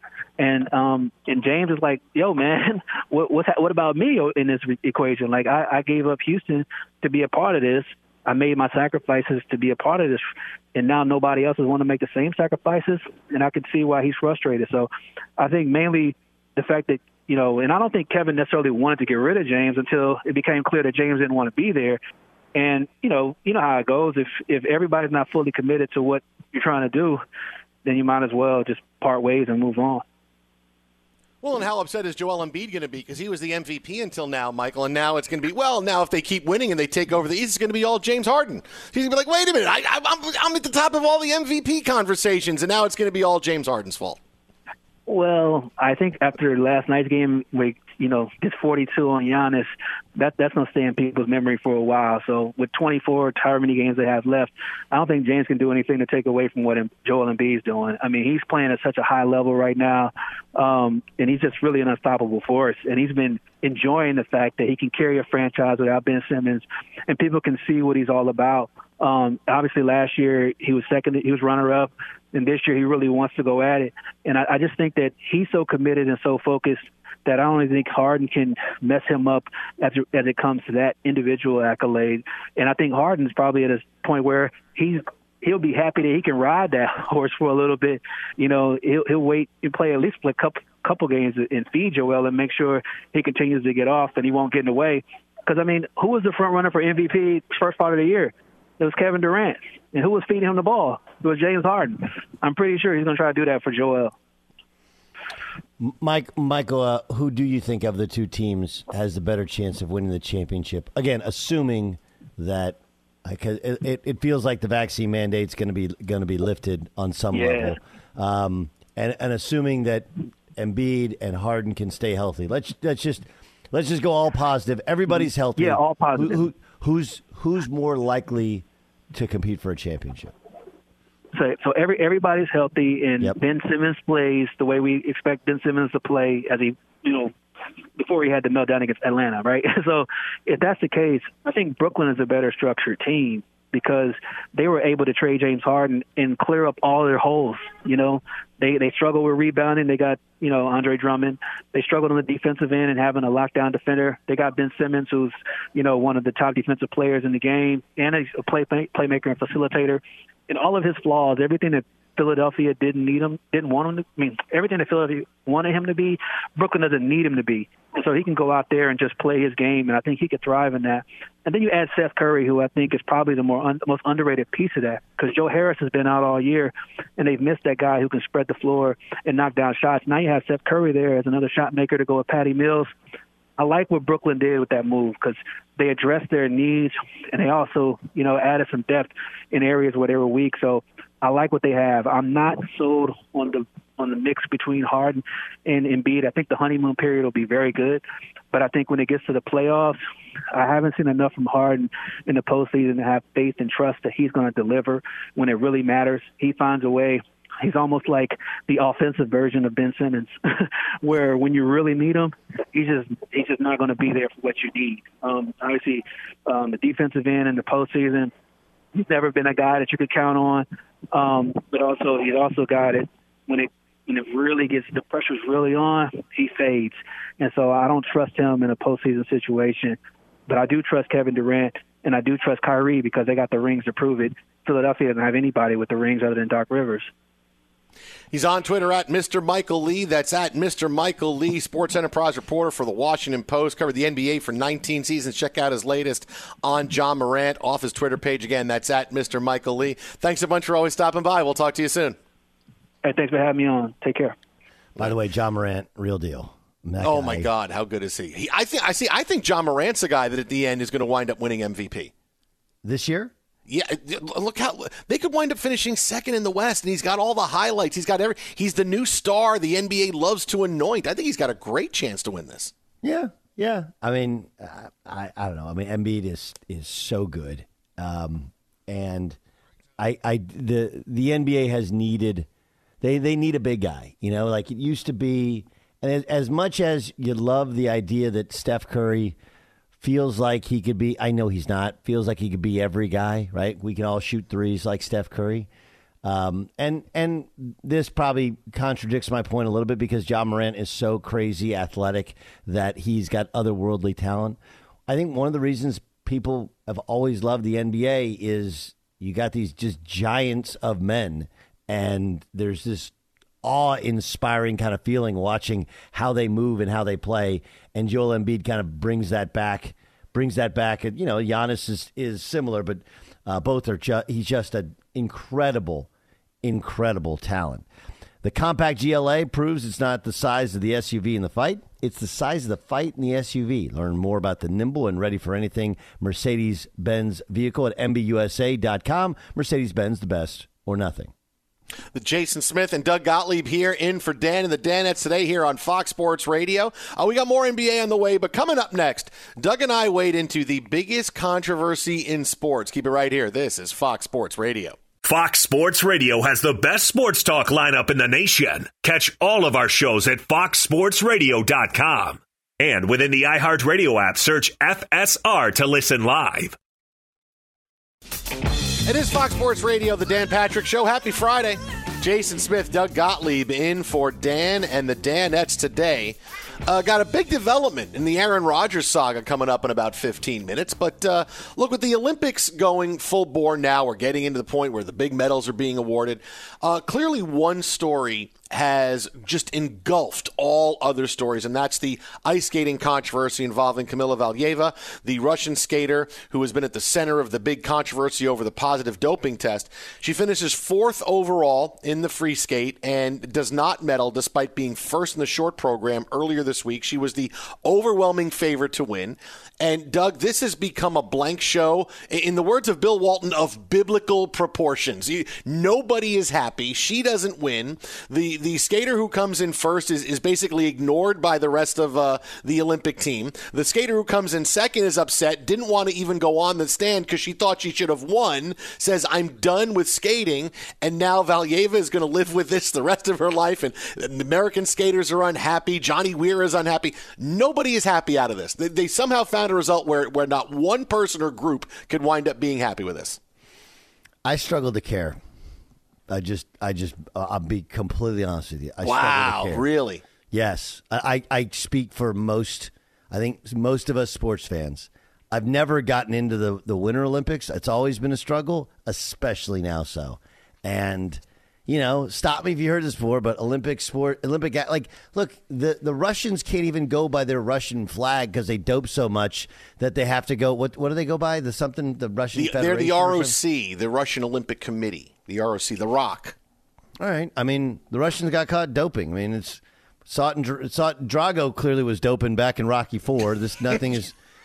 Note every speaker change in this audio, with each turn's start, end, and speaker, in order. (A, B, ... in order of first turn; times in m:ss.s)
0:00.4-0:22.0 A
0:22.5-0:27.2 A
0:27.8-0:30.0 A
0:31.4-0:44.2 B
0:45.1-1:44.1 A
1:45.8-2:10.3 C
1:57.3-1:57.8 A
2:05.6-2:06.4 A
2:11.3-2:17.3 A
2:18.0-3:02.9 A
3:03.6-3:20.0 A
3:20.5-3:38.3 A
3:38.9-3:57.1 A
3:58.3-4:12.2 B
4:13.0-4:14.4 A
4:15.0-4:17.5 C
4:17.0-4:22.1 B
4:22.8-4:23.3 C
4:23.7-4:32.7 B
4:33.0-4:39.4 C
4:40.0-4:42.5 C
4:43.0-4:49.4 C
4:50.0-4:55.7 C
4:56.2-5:26.1 C
5:26.6-5:27.8 C
5:28.4-5:41.3 C
5:42.1-5:55.0 B
5:55.2-6:06.8 D
6:09.0-7:23.4 B
7:24.4-7:25.4 C
7:26.3-7:29.8 C
7:29.0-7:30.2 B
7:30.5-7:53.5 C
7:52.5-7:56.6 B
7:57.2-8:04.3 C